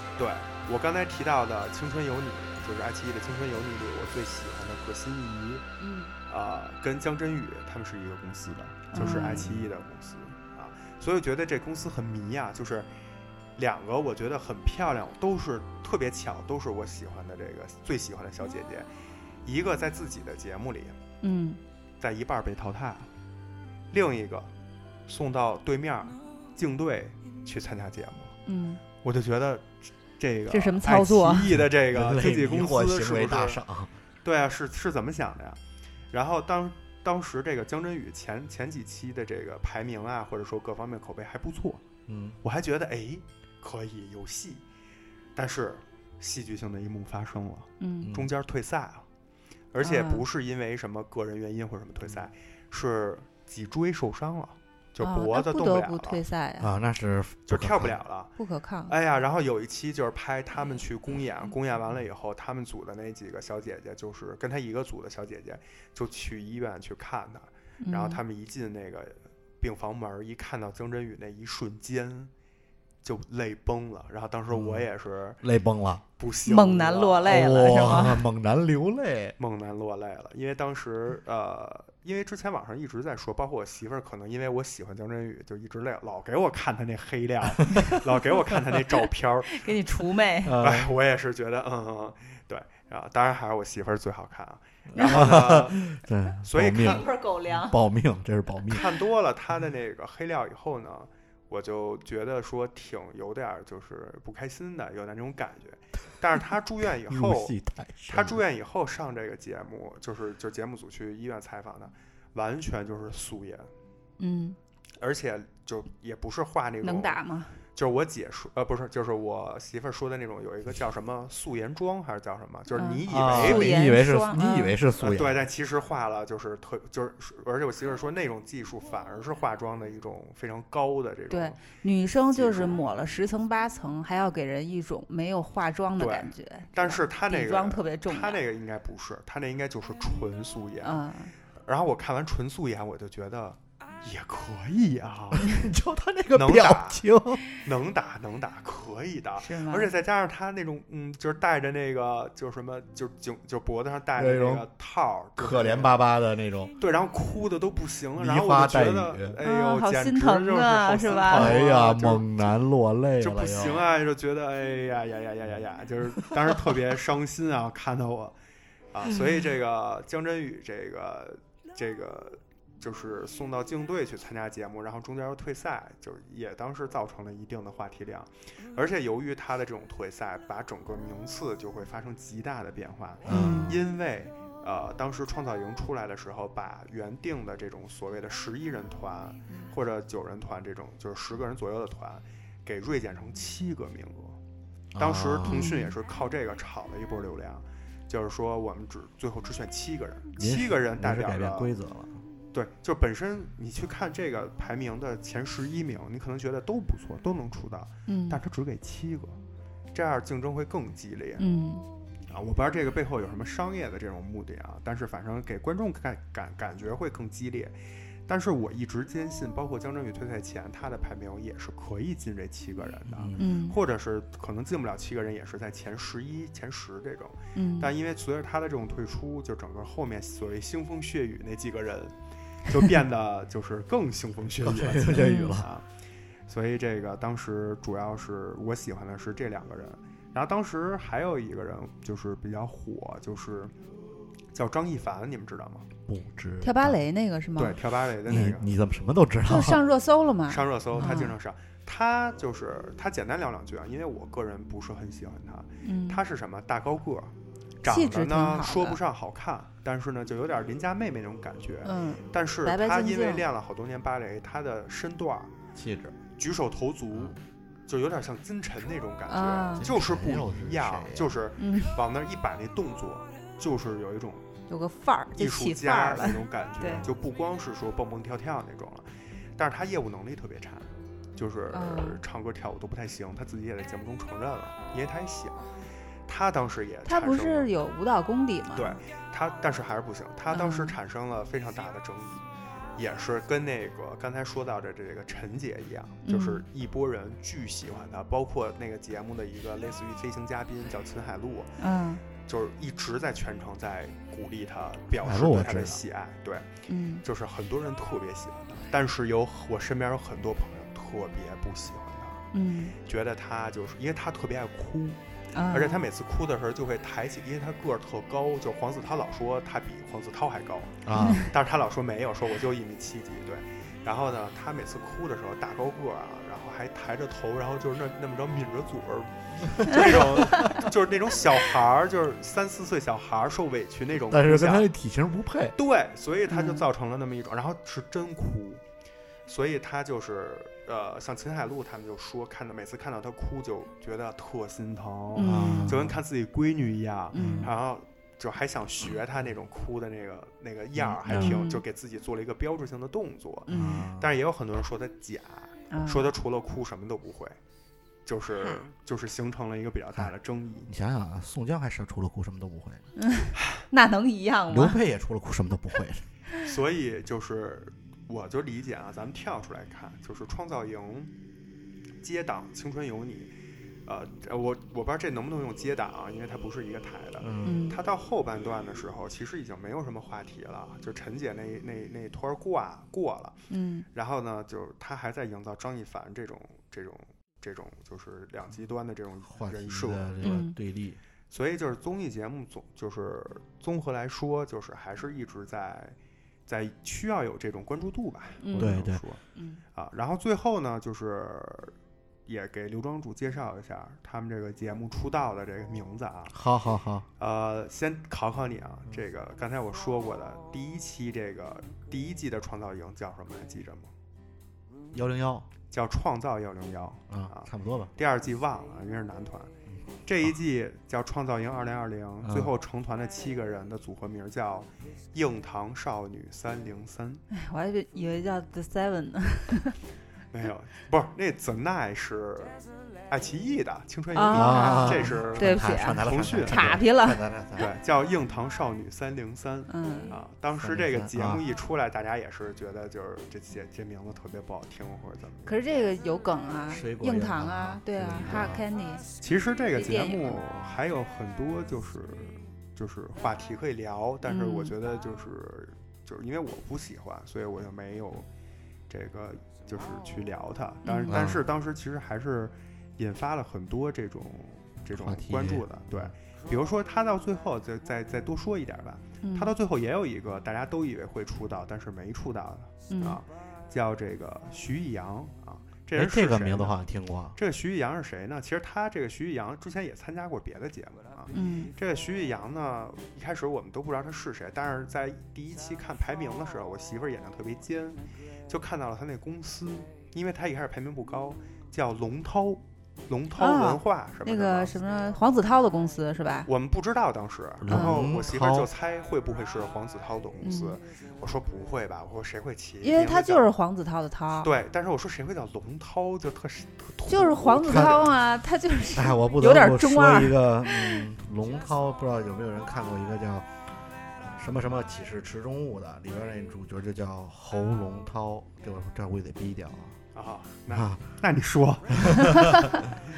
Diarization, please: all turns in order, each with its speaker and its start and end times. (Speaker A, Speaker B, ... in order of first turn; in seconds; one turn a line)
Speaker A: 0.2-5.7
Speaker B: 5.8-6.1
Speaker A: 6.3-12.9
Speaker B: 8.9-9.5
Speaker C: 9.1-9.7
Speaker A: 13.6-18.9
Speaker A: 19.4-21.0
Speaker B: 21.2-21.6
Speaker A: 22.0-23.1
Speaker A: 23.9-24.5
Speaker A: 25.1-28.4
Speaker B: 28.5-28.8
Speaker A: 29.0-33.6
Speaker B: 30.5-31.5
Speaker C: 31.5-33.9
Speaker A: 34.2-35.6
Speaker A: 36.1-41.8
Speaker C: 42.1-42.4
Speaker A: 42.4-44.6
Speaker A: 45.4-49.1
Speaker B: 47.8-48.1
Speaker C: 48.0-48.3
Speaker A: 49.7-56.2
Speaker B: 49.8-50.2
Speaker B: 55.0-56.7
Speaker C: 56.6-58.0
Speaker A: 57.5-58.3
Speaker B: 58.4-58.9
Speaker A: 58.9-72.3
Speaker B: 67.8-68.2
Speaker A: 73.0-75.4
Speaker C: 74.5-74.9
Speaker C: 75.4-76.0
Speaker A: 76.2-78.0
Speaker B: 76.5-78.2
Speaker C: 77.3-79.4
Speaker A: 79.4-89.7
Speaker B: 89.5-90.5
Speaker C: 90.5-90.9
Speaker A: 90.6-95.9
Speaker C: 94.9-98.9
Speaker B: 95.0-95.3
Speaker A: 96.5-97.1
Speaker B: 96.8-97.8
Speaker A: 98.7-107.5
Speaker C: 107.1-108.4
Speaker A: 108.1-113.7
Speaker B: 114.2-114.6
Speaker A: 115.0-117.2
Speaker B: 116.8-117.5
Speaker A: 117.8-123.9
Speaker B: 122.8-124.7
Speaker C: 123.1-125.4
Speaker A: 125.0-131.6
Speaker B: 131.3-138.4
Speaker A: 132.3-132.8
Speaker A: 136.0-141.0
Speaker B: 140.8-141.3
Speaker A: 141.7-145.5
Speaker C: 145.3-147.4
Speaker A: 146.3-147.0
Speaker A: 147.6-155.9
Speaker B: 149.4-149.9
Speaker C: 154.2-154.7
Speaker C: 155.4-156.7
Speaker A: 156.8-162.2
Speaker C: 158.2-159.4
Speaker B: 159.4-161.6
Speaker C: 161.3-163.9
Speaker A: 163.2-168.4
Speaker A: 168.9-194.4
Speaker C: 183.3-183.8
Speaker B: 183.3-183.7
Speaker C: 194.9-195.7
Speaker A: 195.0-201.7
Speaker B: 195.4-195.9
Speaker C: 200.4-202.2
Speaker A: 202.5-209.4
Speaker B: 208.1-208.4
Speaker A: 209.9-211.4
Speaker B: 211.4-211.9
Speaker A: 212.3-217.8
Speaker A: 218.3-232.1
Speaker C: 223.1-223.4
Speaker B: 223.4-223.8
Speaker B: 227.6-227.9
Speaker A: 232.7-235.9
Speaker C: 234.6-235.7
Speaker B: 235.2-235.6
Speaker A: 236.5-243.7
Speaker A: 244.5-245.9
Speaker C: 246.1-247.0
Speaker B: 246.6-247.8
Speaker A: 247.6-248.7
Speaker C: 248.2-249.8
Speaker B: 249.4-251.3
Speaker A: 250.5-265.5
Speaker B: 255.8-256.2
Speaker B: 257.9-259.0
Speaker B: 261.9-263.4
Speaker C: 265.7-266.2
Speaker A: 266.4-274.4
Speaker B: 269.3-269.9
Speaker C: 269.8-271.4
Speaker B: 271.6-272.0
Speaker B: 274.7-277.1
Speaker A: 275.4-285.7
Speaker B: 281.7-282.2
Speaker A: 286.3-287.7
Speaker B: 287.1-289.0
Speaker A: 288.7-301.7
Speaker B: 290.5-290.9
Speaker B: 296.2-296.6
Speaker B: 301.8-302.2
Speaker A: 302.4-306.7
Speaker C: 305.2-306.0
Speaker B: 306.9-307.2
Speaker A: 307.2-312.4
Speaker B: 312.5-312.9
Speaker A: 313.1-315.2
Speaker B: 315.5-316.1
Speaker A: 315.7-334.9
Speaker C: 321.1-321.4
Speaker B: 321.2-321.5
Speaker C: 329.8-330.7
Speaker C: 334.3-335.8
Speaker A: 335.8-338.8
Speaker B: 336.5-336.9
Speaker A: 339.5-357.6
Speaker B: 345.4-345.9
Speaker C: 345.4-346.2
Speaker B: 347.3-347.7
Speaker C: 347.4-347.7
Speaker C: 350.9-351.6
Speaker B: 351.3-351.8
Speaker B: 353.7-354.0
Speaker C: 353.7-354.3
Speaker B: 355.9-356.3
Speaker A: 358.3-360.9
Speaker C: 360.9-363.0
Speaker B: 363.2-365.0
Speaker C: 364.7-366.2
Speaker A: 366.6-371.3
Speaker A: 372.2-373.5
Speaker A: 374.1-383.6
Speaker C: 377.4-377.8
Speaker B: 377.6-378.0
Speaker B: 383.7-384.1
Speaker A: 384.1-390.6
Speaker C: 389.5-391.2
Speaker B: 390.4-390.7
Speaker A: 391.5-396.2
Speaker A: 396.7-399.4
Speaker B: 398.6-399.0
Speaker C: 398.8-399.2
Speaker B: 399.6-399.8
Speaker A: 399.9-401.9
Speaker A: 402.4-406.6
Speaker C: 406.5-407.3
Speaker A: 407.4-414.1
Speaker C: 415.1-415.7
Speaker A: 415.9-419.7
Speaker C: 417.3-418.1
Speaker C: 419.9-420.5
Speaker A: 420.2-427.4
Speaker C: 422.4-422.7
Speaker B: 427.5-430.0
Speaker A: 430.5-432.8
Speaker A: 433.3-436.9
Speaker B: 434.3-437.4
Speaker C: 434.5-437.9
Speaker A: 437.8-445.7
Speaker B: 439.9-440.3
Speaker C: 440.8-441.6
Speaker B: 445.7-449.2
Speaker C: 446.9-448.8
Speaker A: 449.4-458.5
Speaker B: 449.9-450.6
Speaker B: 454.4-454.9
Speaker A: 459.1-477.0
Speaker B: 461.1-461.4
Speaker C: 461.3-461.6
Speaker C: 465.1-466.4
Speaker B: 469.4-469.7
Speaker B: 473.1-473.4
Speaker C: 476.1-477.6
Speaker A: 477.6-494.9
Speaker B: 481.5-481.9
Speaker B: 493.6-496.7
Speaker A: 496.7-503.7
Speaker C: 497.8-498.9
Speaker B: 497.9-498.2
Speaker B: 500.6-501.0
Speaker B: 503.0-504.7
Speaker A: 504.6-508.3
Speaker B: 507.3-511.3
Speaker C: 507.8-508.2
Speaker C: 509.1-513.7
Speaker C: 514.4-520.2
Speaker A: 520.3-523.1
Speaker C: 520.9-521.2
Speaker C: 522.2-522.9
Speaker B: 522.5-523.0